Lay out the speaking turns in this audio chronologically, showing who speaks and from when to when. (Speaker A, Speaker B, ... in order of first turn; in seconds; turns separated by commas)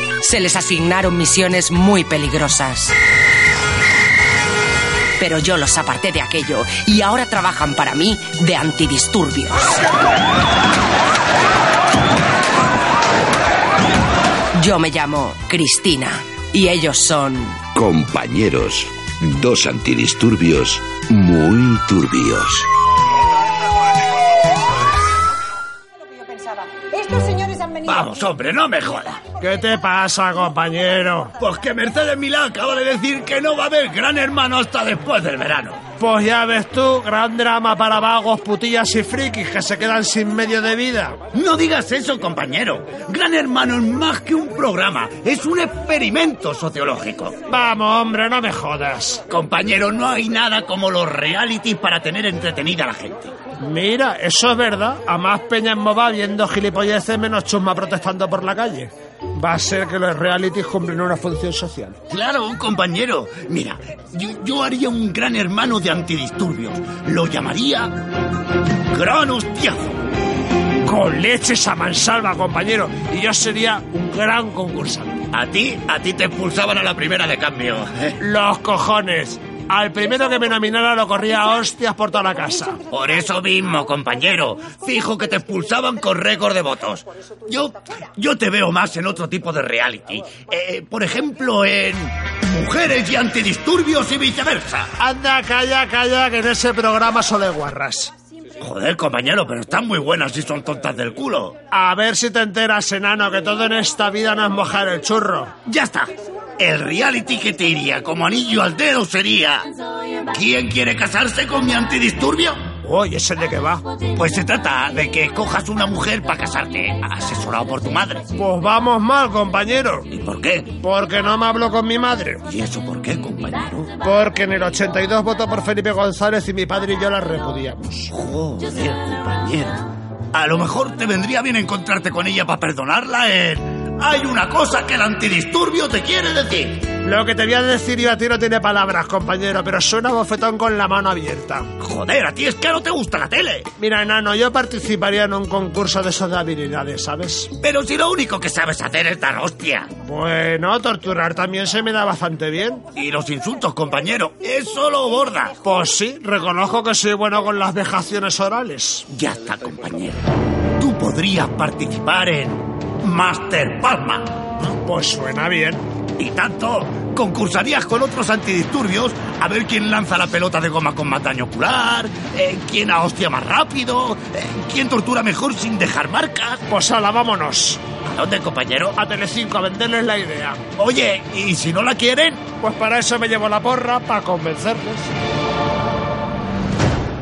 Speaker A: 0.2-3.0, Speaker A: 5.2-9.8, Speaker A: 14.6-17.6, Speaker B: 17.8-22.7, Speaker C: 27.1-29.2, Speaker D: 29.4-31.3, Speaker C: 31.4-35.8, Speaker D: 36.0-41.2, Speaker C: 41.3-47.4, Speaker D: 47.5-49.2, Speaker C: 49.3-53.3, Speaker D: 53.6-62.0, Speaker C: 62.1-68.0, Speaker C: 68.9-70.0, Speaker D: 70.8-75.2, Speaker C: 75.3-78.2, Speaker D: 78.2-82.8, Speaker C: 82.9-94.9, Speaker D: 95.0-98.1, Speaker C: 98.6-101.6, Speaker D: 101.7-105.5, Speaker C: 105.7-109.7, Speaker C: 110.2-112.6, Speaker D: 112.8-113.8, Speaker C: 114.2-118.3, Speaker D: 118.4-120.1, Speaker C: 120.1-120.7, Speaker D: 120.8-122.4, Speaker C: 122.5-123.9, Speaker D: 124.0-128.1, Speaker C: 128.1-136.9, Speaker D: 137.0-141.7, Speaker C: 141.8-143.7, Speaker D: 143.8-147.5, Speaker C: 147.6-149.9, Speaker D: 150.0-152.8, Speaker C: 152.9-155.6, Speaker D: 155.6-159.1, Speaker C: 159.1-160.2, Speaker C: 160.8-164.4, Speaker D: 164.7-165.8, Speaker C: 166.2-176.6, Speaker D: 176.7-177.8, Speaker C: 178.1-179.0, Speaker D: 179.0-180.6, Speaker C: 180.8-182.5, Speaker D: 182.6-185.1